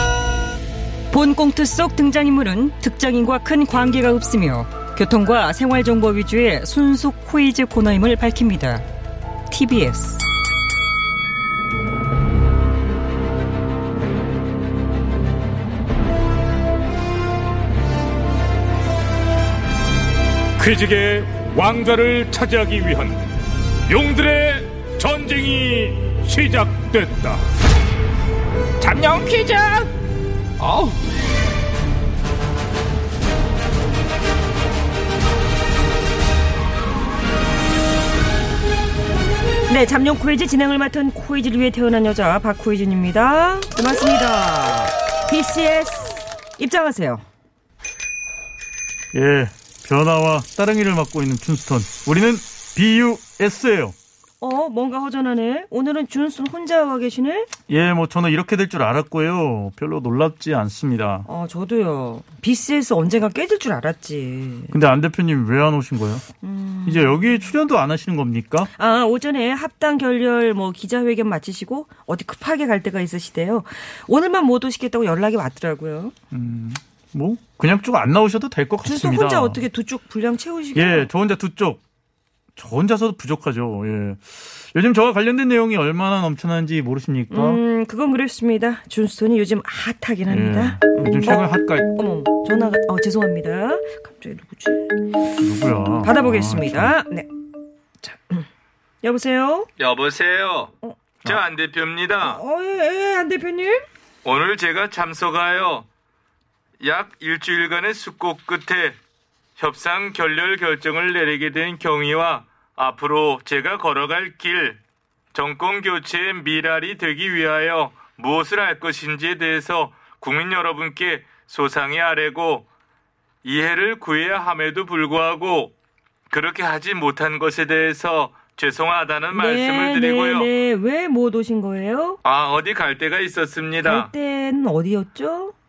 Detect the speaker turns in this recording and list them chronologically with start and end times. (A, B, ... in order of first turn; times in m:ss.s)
0:01.1-0:08.9 A
0:09.5-0:10.2 A
0:20.6-0:23.2 B
0:23.9-0:27.4 B
0:28.8-0:29.9 B
0:30.6-0:31.0 B
0:39.7-0:47.2 A
0:49.1-0:54.0 C
0:54.4-0:57.5 A
0:57.7-1:01.3 C
1:01.3-1:04.7 A
1:04.7-1:06.2 C
1:06.4-1:07.5 A
1:06.9-1:08.7 C
1:08.8-1:16.1 A
1:16.3-1:19.6 C
1:18.8-1:21.1 A
1:20.8-1:21.8 C
1:22.6-1:27.6 C
1:27.3-1:35.2 A
1:30.3-1:31.9 C
1:35.4-1:36.9 C
1:36.0-1:37.3 A
1:38.0-1:38.5 A
1:39.0-1:39.7 A
1:39.8-1:40.7 D
1:41.3-1:42.4 D
1:42.2-1:43.8 A
1:44.2-1:45.8 D
1:46.8-1:49.0 D
1:49.6-1:54.8 D
1:55.3-2:02.6 D
2:03.4-2:05.7 D
2:06.3-2:10.5 D
2:08.3-2:08.6 B
2:09.3-2:12.2 A
2:12.2-2:14.1 D
2:13.8-2:15.5 A